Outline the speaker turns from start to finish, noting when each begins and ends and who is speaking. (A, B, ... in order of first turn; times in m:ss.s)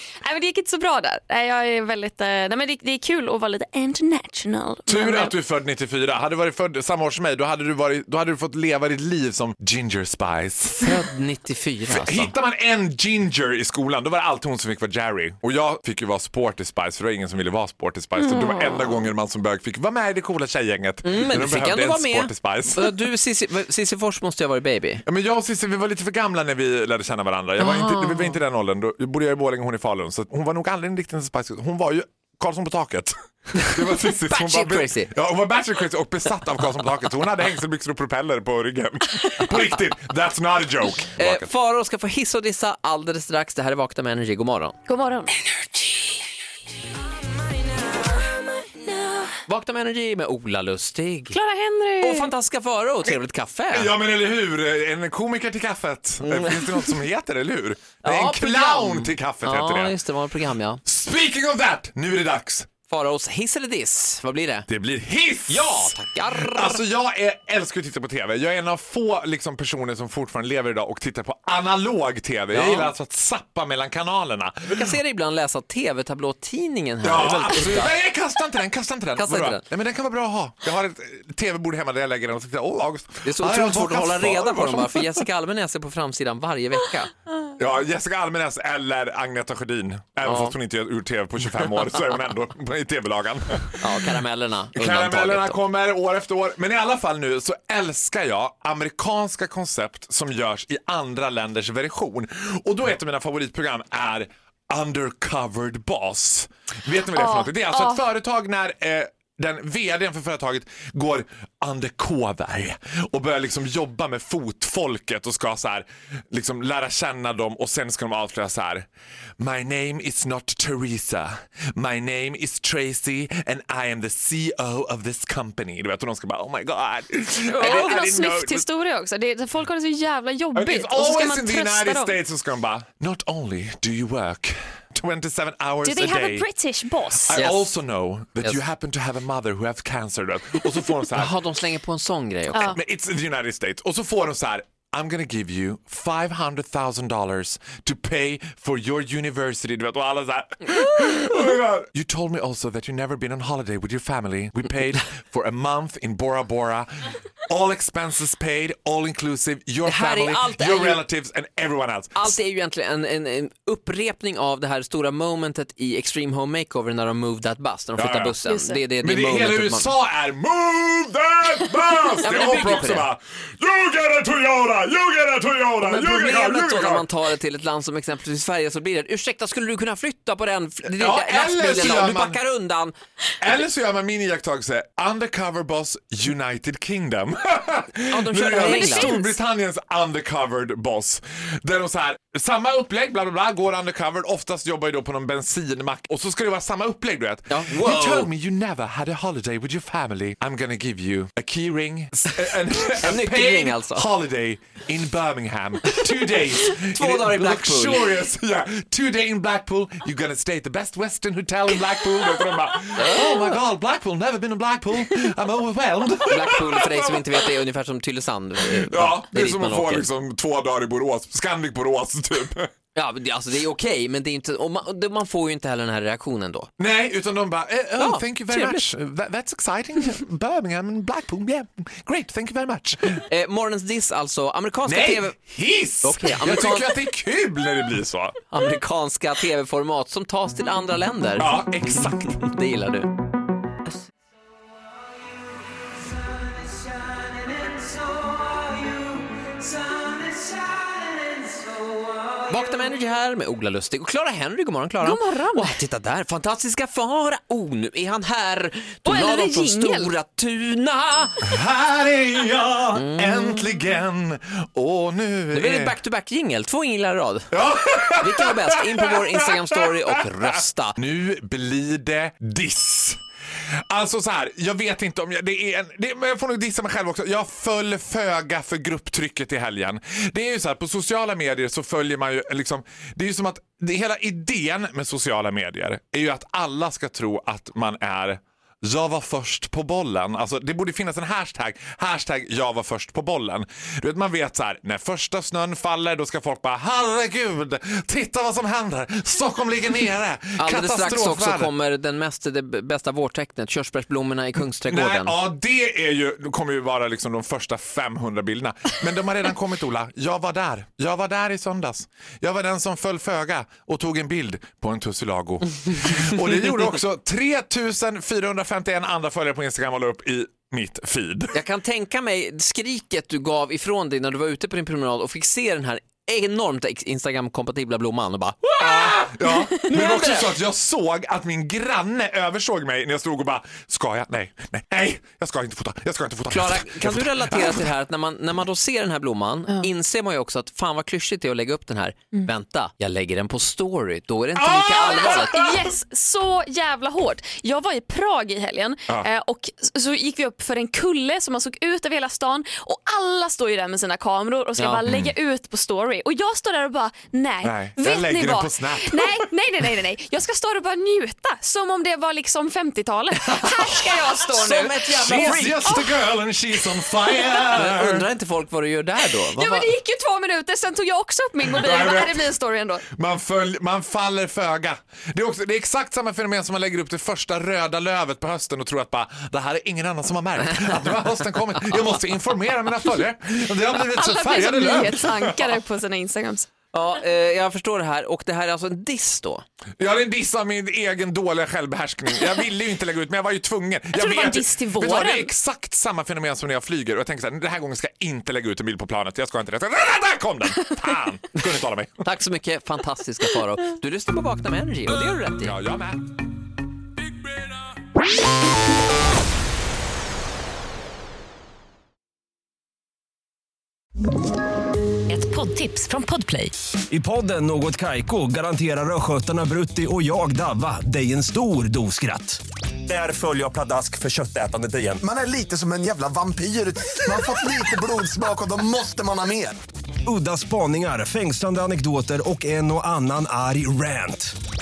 0:00.2-0:05.3 A
0:04.9-0:11.0 B
0:10.8-0:12.3 C
0:11.9-0:23.1 B
0:18.3-0:18.8 A
0:21.0-0:25.0 C
0:25.0-0:41.5 B
0:27.6-0:28.4 C
0:34.3-0:35.1 C
0:41.2-0:44.8 C
0:44.9-0:45.4 A
0:49.5-0:51.4 C
0:51.3-0:52.3 A
0:52.0-0:53.9 C
0:53.7-1:00.0 B
0:56.2-0:56.9 C
0:58.0-1:00.8 C
1:00.8-1:02.7 B
1:02.9-1:04.7 C
1:04.7-1:15.0 B
1:05.5-1:06.8 C
1:12.5-1:12.9 C
1:14.7-1:18.0 C
1:17.0-1:25.1 B
1:19.2-1:19.6 C
1:23.2-1:27.1 C
1:27.6-1:33.9 B
1:30.2-1:30.6 C
1:33.8-1:35.6 C
1:34.8-1:58.9 B
1:47.0-1:48.1 A
1:59.4-2:08.7 B
2:07.4-2:12.2 A
2:10.5-2:16.5 B
2:15.8-2:17.3 A
2:17.2-2:21.4 B
2:17.3-2:17.7 C
2:21.1-2:22.7 C
2:22.6-2:36.9 B
2:37.5-2:42.4 B
2:39.8-2:41.0 C
2:42.2-2:49.9 C
2:48.0-2:48.4 B
2:48.4-2:48.8 A
2:49.0-2:57.0 B
2:52.2-2:53.1 C
2:55.8-3:02.9 C
3:01.0-3:02.4 B
3:03.4-3:37.1 B
3:08.1-3:09.2 C
3:08.6-3:09.4 A
3:17.5-3:18.3 C
3:22.9-3:24.0 C
3:26.8-3:28.1 C
3:33.0-3:33.6 C
3:36.3-3:40.1 C
3:38.9-3:42.7 B
3:43.0-3:46.7 C
3:46.8-3:53.2 B
3:48.0-3:48.9 C
3:53.3-3:55.4 C
3:54.9-3:58.4 B
3:56.0-3:57.0 C
3:58.5-4:03.1 C
4:01.4-4:02.4 B
4:12.5-4:21.4 C
4:15.0-4:15.8 A
4:19.1-4:20.1 A
4:21.4-4:26.0 B
4:23.0-4:23.6 C
4:25.5-4:27.5 C
4:27.5-4:29.2 B
4:28.2-4:31.0 C
4:31.0-4:33.2 B
4:33.9-5:01.7 B
5:00.6-5:05.4 C
5:04.9-5:21.6 B
5:21.5-5:30.6 C
5:28.8-5:37.9 B
5:36.5-5:45.5 C
5:44.6-5:46.0 B
5:44.9-6:06.1 A
5:54.8-5:55.0 C
5:55.0-5:55.3 B
5:57.6-5:59.5 B
6:03.5-6:04.3 B
6:04.5-6:05.9 C
6:05.1-6:08.3 B
6:07.7-6:09.9 C
6:09.4-6:13.0 A
6:11.6-6:12.5 B
6:13.1-6:25.7 B
6:24.0-6:26.7 A
6:26.9-6:29.6 C
6:30.0-6:42.2 B
6:34.1-6:35.5 A
6:42.2-6:45.8 C
6:45.6-6:46.2 B
6:47.4-6:47.7 B
6:55.3-6:56.7 A
6:57.1-7:05.2 D
7:05.2-7:09.8 E
7:10.2-7:14.5 D